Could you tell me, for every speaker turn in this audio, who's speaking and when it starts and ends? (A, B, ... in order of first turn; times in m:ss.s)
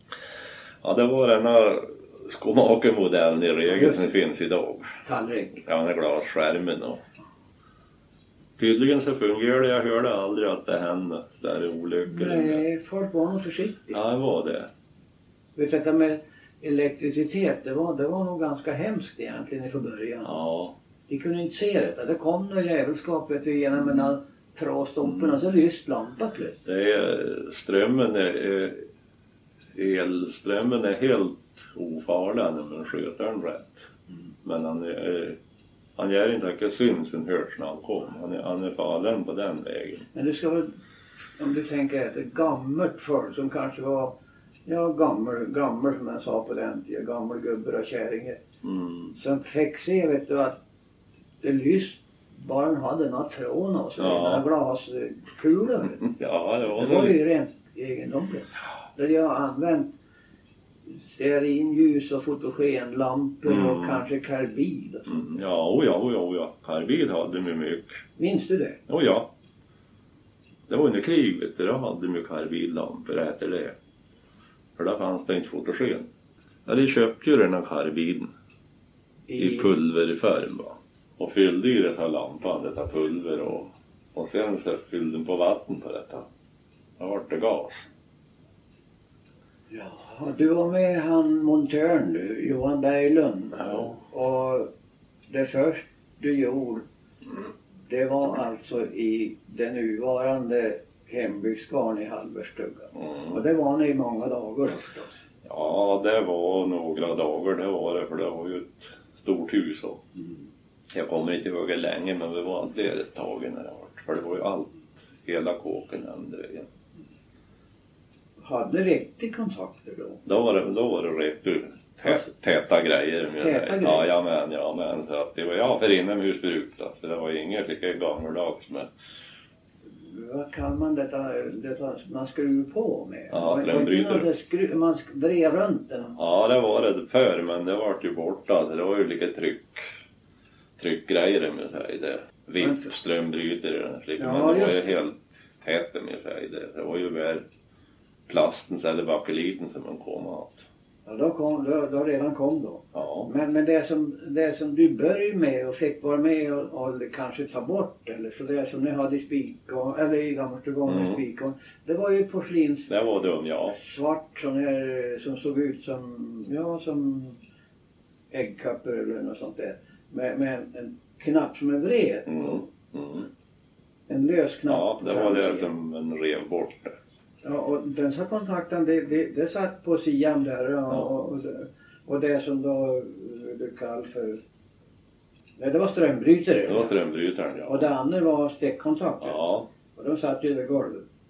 0:00.8-0:04.9 A
0:03.7-0:04.2 B
0:05.0-0:05.6 B
0:05.6-0:07.0 A
0:08.6-0:12.6 A
0:12.1-0:14.0 B
0:13.9-0:14.7 A
0:15.6-0:20.3 B
0:20.2-0:20.7 A
0:21.1-0:26.6 B
0:26.6-0:28.8 A
0:29.7-0:33.9 A
0:34.4-0:35.4 A
0:36.0-0:40.0 A
0:40.1-0:40.7 B
0:41.4-0:44.1 B
0:44.6-0:48.4 B
0:48.6-0:49.2 A
0:49.1-0:50.6 B
0:51.4-0:56.1 B
0:54.0-0:54.4 A
0:56.0-0:57.2 A
0:56.8-0:59.9 B
1:01.0-1:05.4 B
1:03.4-1:04.0 A
1:05.1-1:07.9 A
1:08.2-1:08.8 B
1:08.9-1:09.3 A
1:10.7-1:13.7 A
1:14.8-1:16.1 A
1:16.6-1:18.3 A
1:19.3-1:19.7 B
1:19.4-1:26.2 A
1:27.0-1:27.9 A
1:29.7-1:34.7 B
1:35.3-1:36.8 B
1:37.9-1:45.1 B
1:45.4-1:50.0 A
1:50.9-1:56.7 A
1:58.4-2:00.2 B
2:00.2-2:08.9 A
2:03.4-2:04.1 B
2:10.0-2:16.2 B
2:13.3-2:14.3 A
2:16.2-2:19.8 A
2:20.8-2:27.4 A
2:22.6-2:22.9 B
2:24.2-2:25.0 B
2:28.3-2:30.7 A
2:31.0-2:42.9 B
2:32.9-2:33.3 A
2:40.8-2:41.2 A
2:42.9-2:43.8 A
2:43.8-2:47.4 B
2:48.3-2:52.6 B
2:52.2-2:53.3 A
2:54.1-2:55.7 B
2:54.6-2:56.9 A
2:57.4-3:04.4 B
3:05.6-3:07.0 B
3:06.6-3:07.9 A
3:07.6-3:09.4 B
3:09.2-3:09.7 A
3:09.9-3:11.0 B